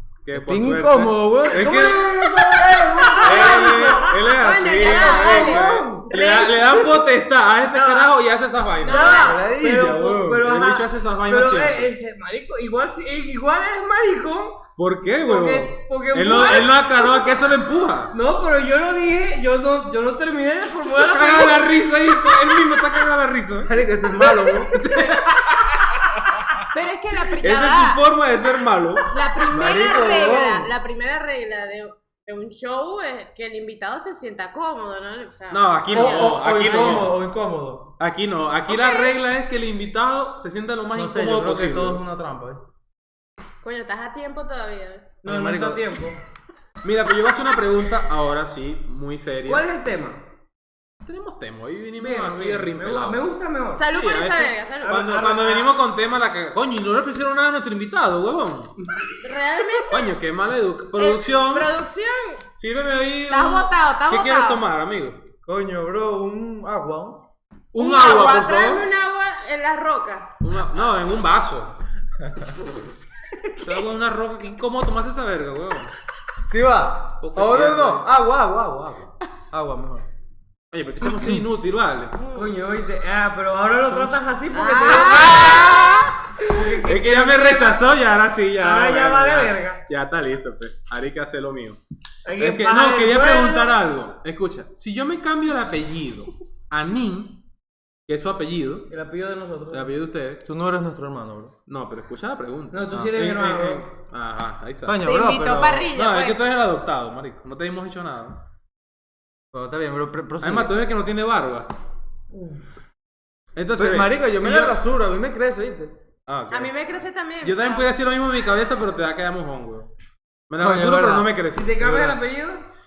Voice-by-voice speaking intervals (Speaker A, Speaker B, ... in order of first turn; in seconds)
Speaker A: 0.2-2.3, 3.2-11.9, 14.8-18.1, 20.8-23.9, 24.7-26.2, 27.4-30.5, 35.5-37.2, 38.0-42.0, 46.8-49.6, 51.0-53.3, 53.9-58.7, 59.9-61.7, 62.5-65.2, 67.7-68.9, 70.4-71.8, 73.6-75.9, 77.2-78.0, 80.7-82.2, 83.9-84.2, 84.8-86.0, 86.8-91.8, 92.4-97.4, 98.1-98.9, 99.7-100.4, 101.7-105.1, 105.9-108.4, 110.4-111.7, 113.5-114.8, 116.3-116.7, 117.4-119.9, 120.5-122.2
Speaker B: 0.3-3.6, 4.8-6.0, 9.2-10.0, 23.6-24.8, 29.5-30.7, 35.9-37.9, 40.9-42.7, 45.2-45.9, 65.5-67.2, 72.2-72.6, 76.5-80.0, 81.1-81.4, 100.4-101.5, 104.8-105.9, 109.5-110.7, 113.8-116.0, 120.6-121.3
Speaker C: 2.7-4.3, 5.5-6.0, 7.7-8.1, 8.8-14.7, 15.2-17.3, 18.1-21.7, 45.2-46.2, 49.5-50.2, 52.0-53.9, 54.8-55.7, 82.3-85.7, 86.4-87.8, 88.6-89.8, 92.2-93.8, 98.9-99.9, 102.7-103.9, 112.3-112.6, 121.5-122.6
Speaker D: 3.2-6.8, 8.8-9.3, 24.9-25.1, 26.7-28.0, 29.1-37.0, 38.7-39.1, 43.6-45.1, 53.8-55.0, 59.2-60.1, 60.9-62.4, 63.3-64.6, 67.8-70.3, 82.2-82.4, 84.5-86.5, 105.0-106.4, 116.5-117.9